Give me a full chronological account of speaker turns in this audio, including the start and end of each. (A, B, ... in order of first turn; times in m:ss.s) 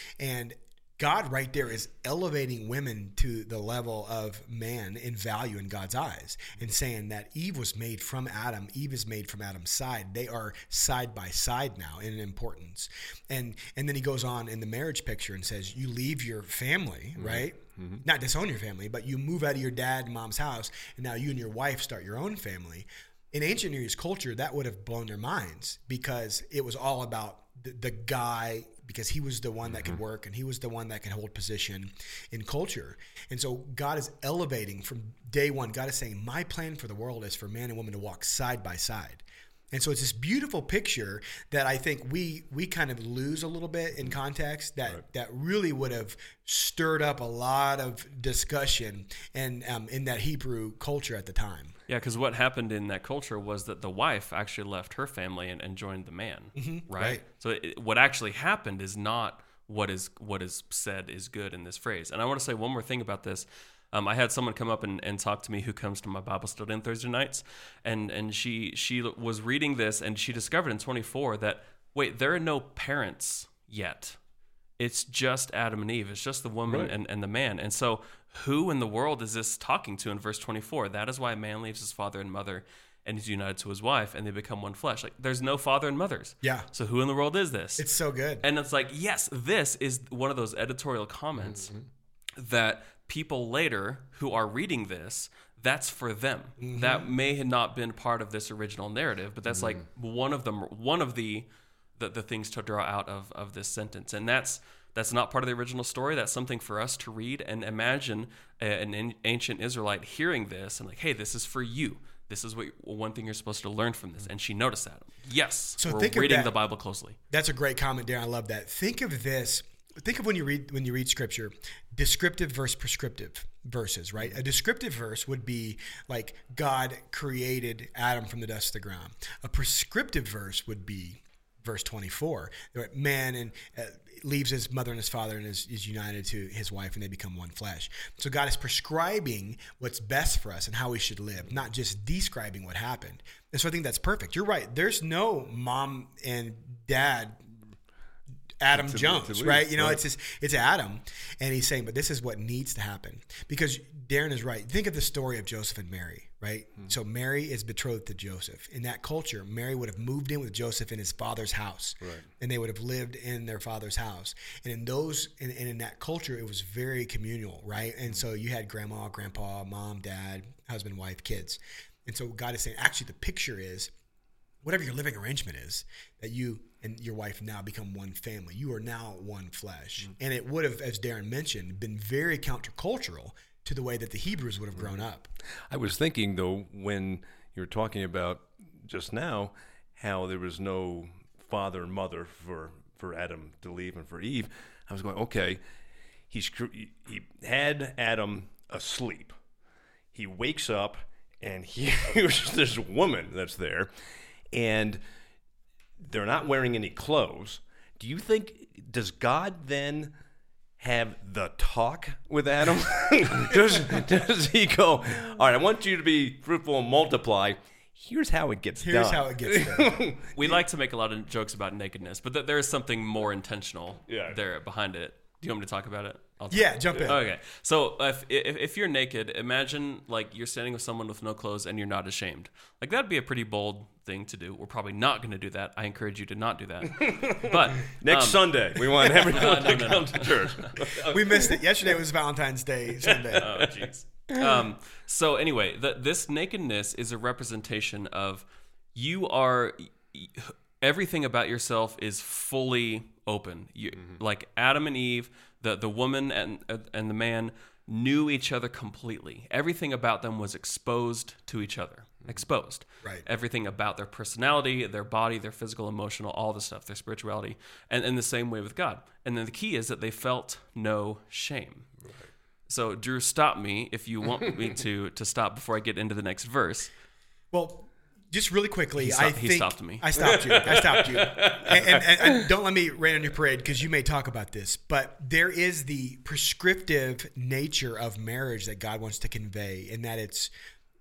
0:00.2-0:51.7 A
0:17.2-0:18.0 B
0:29.7-0:30.0 B
0:51.9-1:14.2 C
0:56.6-0:57.2 A
1:14.8-1:27.9 C
1:16.7-1:16.9 B
1:27.8-1:28.4 A
1:28.4-1:31.7 C
1:32.4-1:57.2 C
1:36.6-1:37.1 A
1:55.8-1:56.5 A
1:57.3-2:27.4 A
2:28.6-2:53.9 A
2:28.7-2:30.0 B
2:42.0-2:42.3 B
2:54.6-3:05.3 A
3:05.7-3:15.6 B
3:16.3-3:19.4 B
3:20.1-3:23.9 B
3:24.5-3:25.0 B
3:26.0-3:30.1 B
3:30.8-3:40.3 B
3:38.8-3:40.5 A
3:40.3-4:00.7 C
3:44.1-3:44.4 B
3:46.5-3:47.2 A
3:56.9-4:01.6 B
4:00.9-4:03.5 A
4:03.0-4:03.7 B
4:03.4-4:31.9 C
4:04.3-4:04.6 B
4:32.7-4:36.9 C
4:37.5-4:50.5 A
4:39.0-4:40.1 C
4:40.2-4:42.5 B